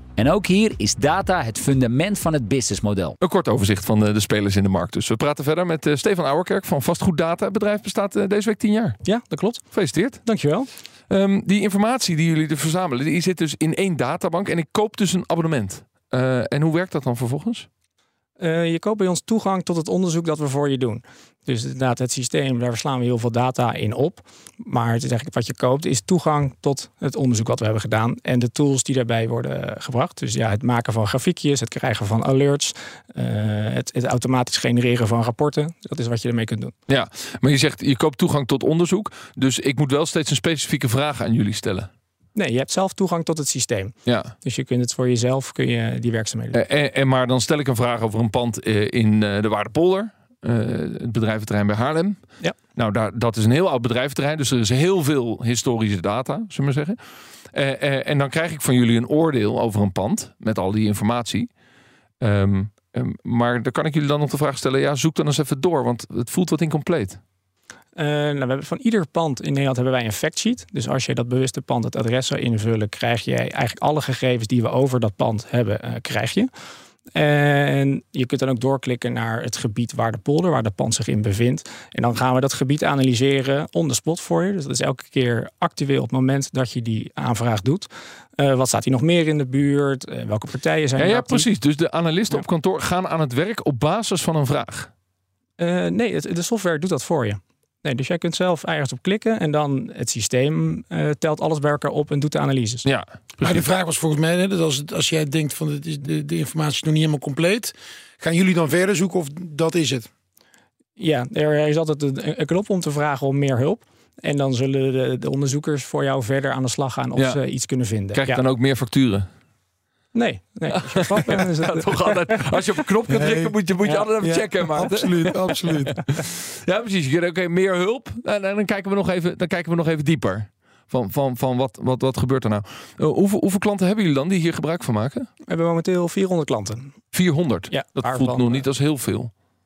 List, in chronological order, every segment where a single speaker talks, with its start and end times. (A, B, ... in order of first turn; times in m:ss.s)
0:00.2-0:03.2 A
0:03.2-0:09.0 B
0:09.0-0:09.6 C
0:09.7-0:10.2 B
0:10.2-0:10.7 C
0:11.1-0:17.7 B
0:18.4-0:36.7 C
0:36.9-0:41.9 B
0:42.4-0:46.6 C
0:44.0-0:44.3 B
0:46.5-0:52.2 B
0:52.8-0:57.0 B
0:57.5-1:01.5 B
1:02.2-1:07.2 B
1:08.0-1:16.5 C
1:17.1-1:31.4 C
1:31.0-1:34.9 B
1:35.6-1:42.8 C
1:42.8-1:43.6 B
1:43.4-1:50.1 D
1:51.0-1:58.4 C
1:58.1-1:59.3 B
2:00.1-2:02.4 C
2:01.0-2:05.3 B
2:03.1-2:03.5 D
2:03.8-2:04.8 C
2:04.2-2:06.0 D
2:06.1-2:15.3 B
2:15.5-2:16.9 C
2:17.1-2:19.3 B
2:17.7-2:18.6 C